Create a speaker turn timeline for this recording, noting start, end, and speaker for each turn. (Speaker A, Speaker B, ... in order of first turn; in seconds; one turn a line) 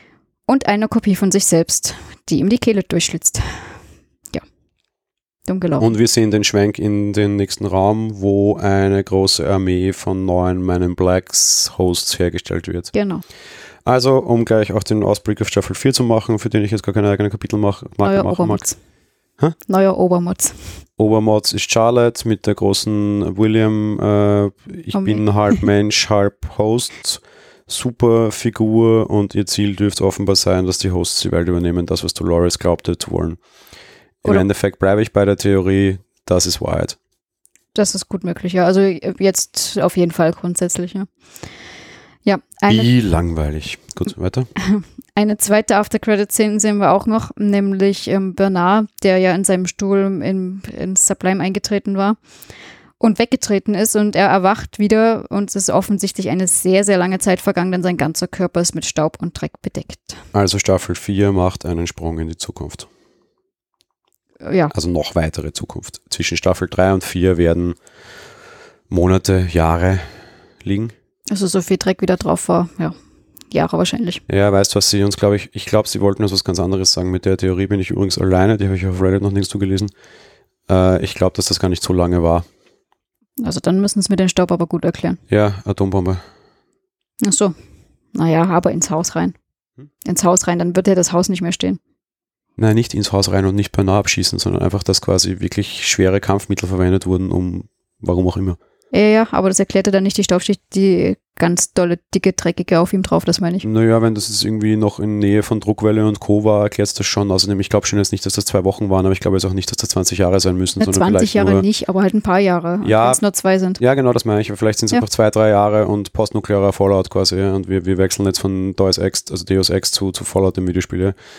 Speaker A: 0.5-3.7
Speaker A: 5.5-5.9
Speaker B: 5.8-12.9
Speaker A: 12.9-13.2
Speaker B: 13.8-18.6
Speaker A: 18.0-18.8
Speaker A: 19.7-20.8
Speaker B: 21.0-33.4
Speaker A: 24.9-25.6
Speaker B: 34.2-37.0
Speaker A: 37.7-41.1
Speaker A: 42.2-42.9
Speaker B: 42.7-44.5
Speaker A: 44.6-52.2
Speaker A: 53.0-60.2
Speaker B: 60.3-62.9
Speaker A: 64.4-64.7
Speaker B: 64.7-67.8
Speaker B: 68.9-70.0
Speaker B: 70.6-70.9
Speaker A: 71.3-72.9
Speaker A: 73.5-74.2
Speaker B: 74.3-79.9
Speaker B: 80.7-82.4
Speaker A: 83.4-85.2
Speaker B: 85.3-86.2
Speaker A: 87.2-87.5
Speaker A: 88.1-89.3
Speaker A: 90.0-91.8
Speaker B: 92.6-98.6
Speaker A: 98.9-103.7
Speaker B: 103.6-111.6
Speaker A: 110.8-113.8
Speaker B: 112.8-113.2
Speaker B: 113.8-121.2